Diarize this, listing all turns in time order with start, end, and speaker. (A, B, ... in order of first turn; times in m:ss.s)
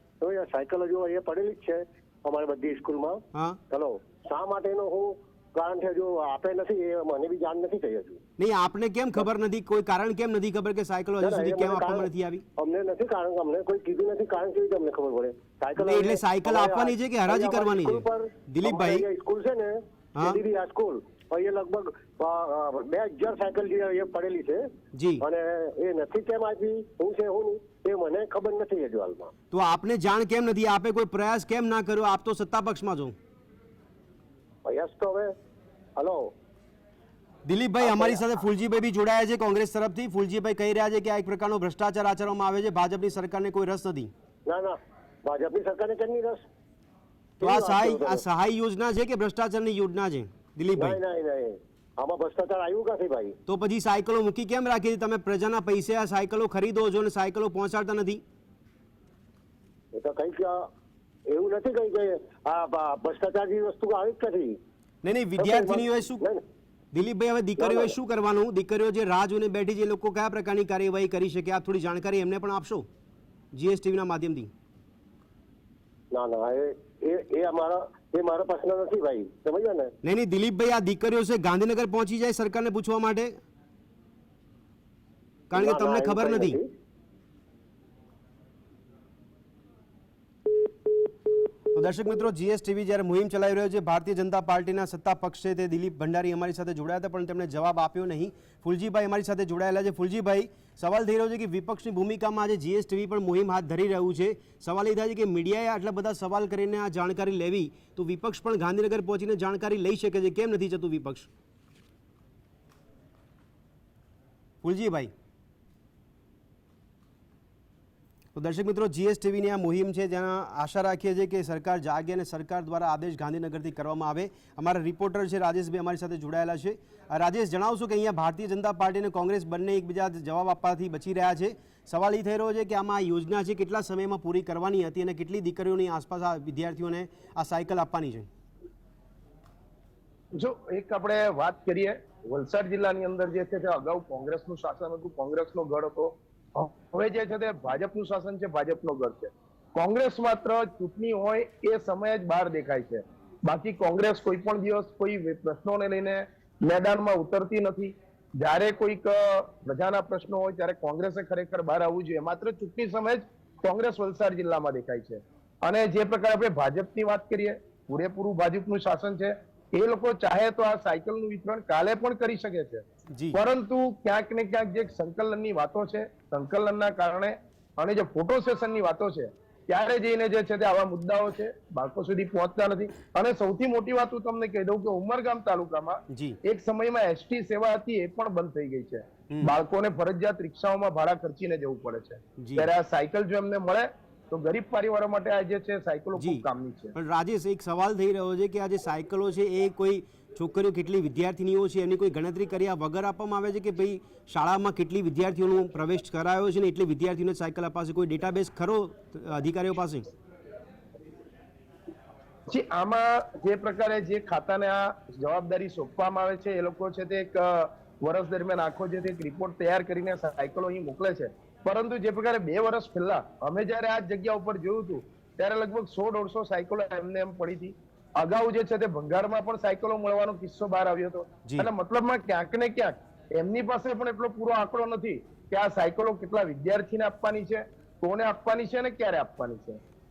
0:00.2-0:08.2 A
0:03.3-0:03.6 B
0:08.4-0:12.4 B
0:11.2-0:24.7 A
0:15.8-0:19.0 B
0:20.1-0:20.4 B
0:24.9-0:25.2 B
0:25.2-0:29.3 A
0:29.5-0:33.2 B
0:34.6-0:35.3 A
0:36.0-0:36.3 A
0:37.4-0:44.1 B
0:37.8-0:38.2 A
0:44.4-0:46.4 A
0:47.4-0:48.2 A
0:47.4-0:51.0 B
0:50.8-0:53.4 A
0:53.5-0:58.2 B
0:59.9-1:00.7 A
1:01.3-1:04.6 A
1:05.0-1:06.2 B
1:05.4-1:06.4 A
1:06.9-1:12.9 B
1:07.6-1:08.0 A
1:13.5-1:14.5 B
1:16.1-1:19.9 A
1:20.0-1:23.4 B
1:25.5-1:26.6 B
1:25.5-1:26.7 A
1:31.7-1:51.3 B
1:54.6-1:55.1 B
1:58.3-2:18.3 B
2:20.3-3:16.9 C
2:53.1-2:53.4 B
3:06.1-3:06.4 B
3:12.4-3:12.7 B
3:16.2-3:30.1 B
3:32.5-3:59.8 C
3:51.4-3:51.7 B